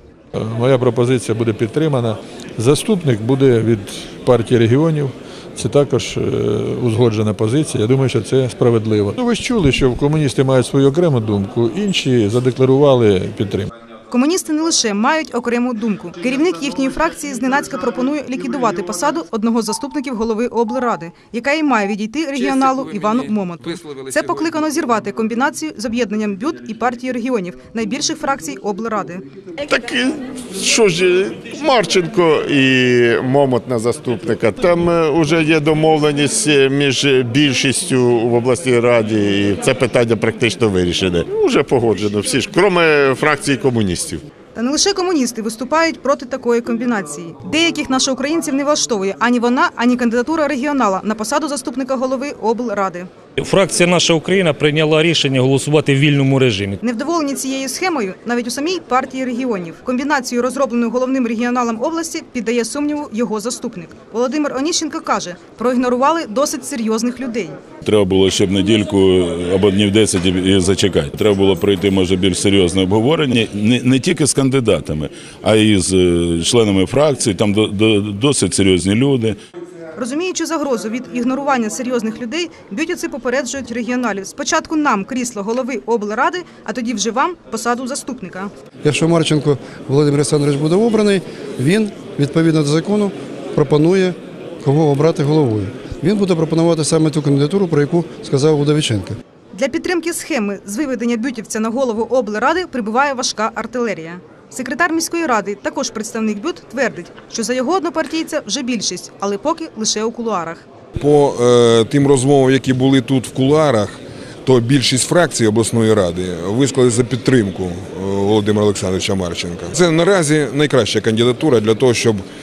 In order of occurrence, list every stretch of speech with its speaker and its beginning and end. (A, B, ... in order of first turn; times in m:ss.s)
0:00.4-0:13.7 A
0:14.1-0:29.2 B
0:29.6-0:44.2 C
0:44.6-0:53.1 B
0:53.4-0:56.8 D
0:56.8-1:07.6 B
1:07.8-1:19.4 E
1:20.0-1:28.5 B
1:28.8-1:39.2 F
1:39.5-1:50.6 B
1:51.0-2:02.2 G